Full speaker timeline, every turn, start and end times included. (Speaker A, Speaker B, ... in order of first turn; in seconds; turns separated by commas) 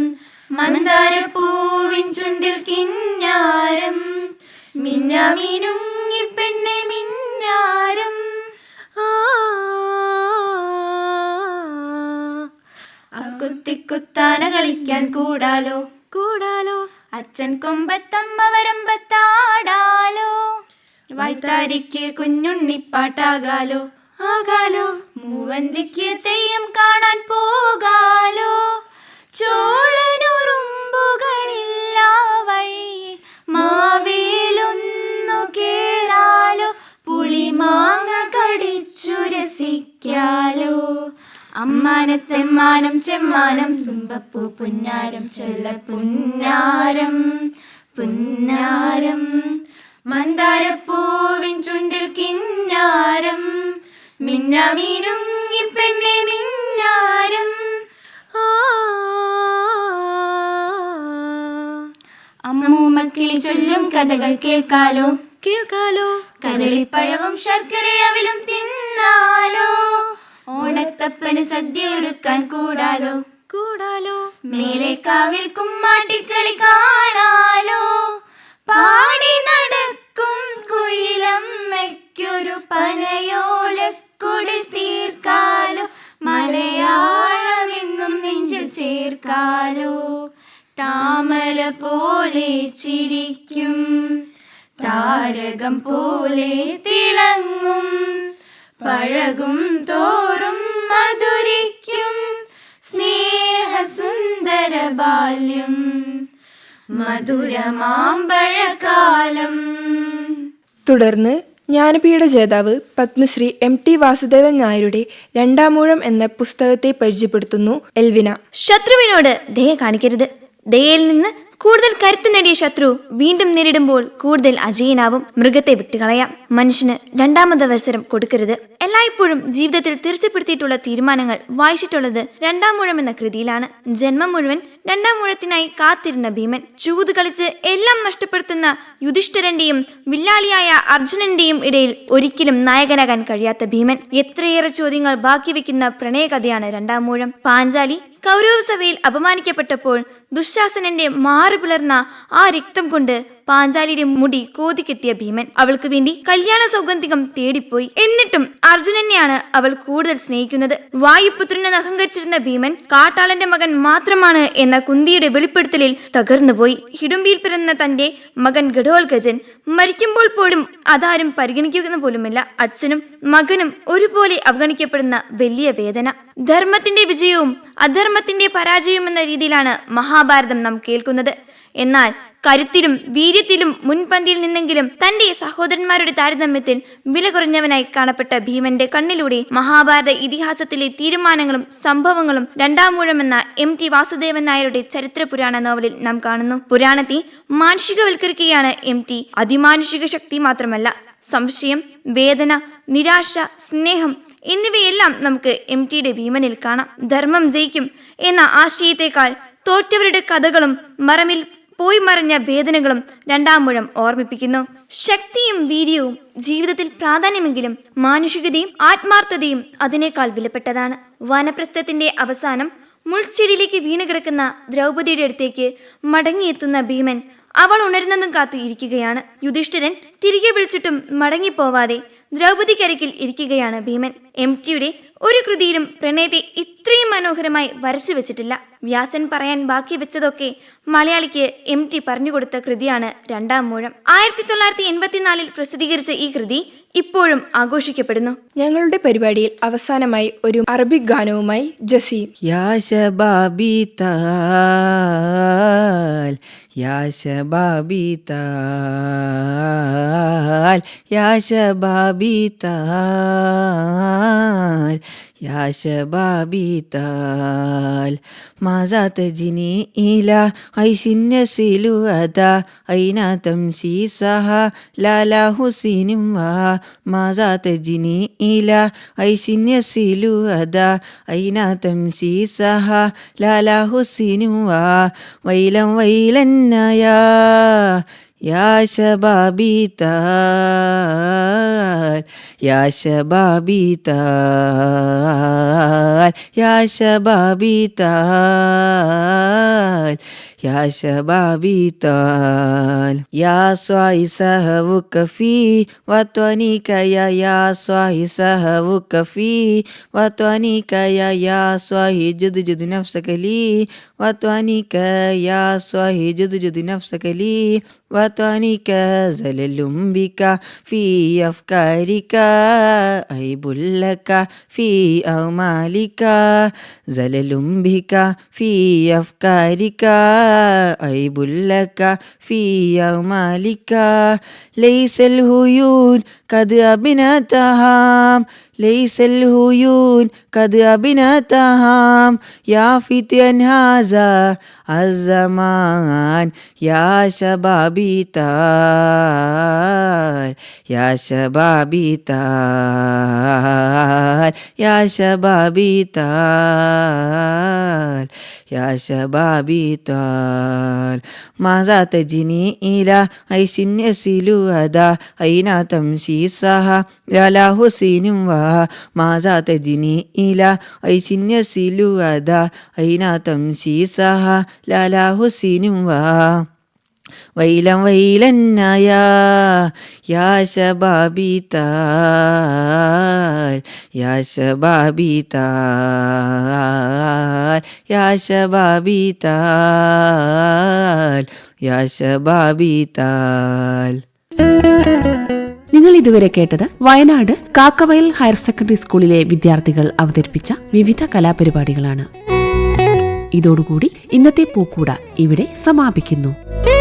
Speaker A: 0.6-4.0, Speaker A: 4.8-8.2, Speaker B: 9.0-12.4, Speaker A: 13.2-15.8, Speaker B: 16.1-16.9, Speaker A: 17.1-20.3, Speaker A: 21.2-28.5, Speaker A: 29.3-40.8, Speaker A: 41.6-47.2, Speaker A: 48.0-49.2, Speaker A: 50.1-53.5, Speaker A: 54.2-57.5, Speaker B: 58.3-61.8, Speaker A: 62.5-65.1, Speaker B: 65.4-66.1, Speaker A: 66.4-69.8, Speaker A: 70.5-73.2, Speaker B: 73.5-74.2, Speaker A: 74.5-77.9, Speaker A: 78.7-89.9, Speaker A: 90.8-93.9, Speaker A: 94.8-97.9, Speaker A: 98.8-102.2, Speaker A: 102.9-105.8, Speaker A: 106.9-110.1, Speaker C: 110.9-118.4, Speaker D: 118.6-248.4, Speaker C: 248.6-252.3, Speaker E: 252.5-376.6, Speaker E: 377.6-394.2, Speaker F: 395.9-402.3, Speaker F: 403.5-406.5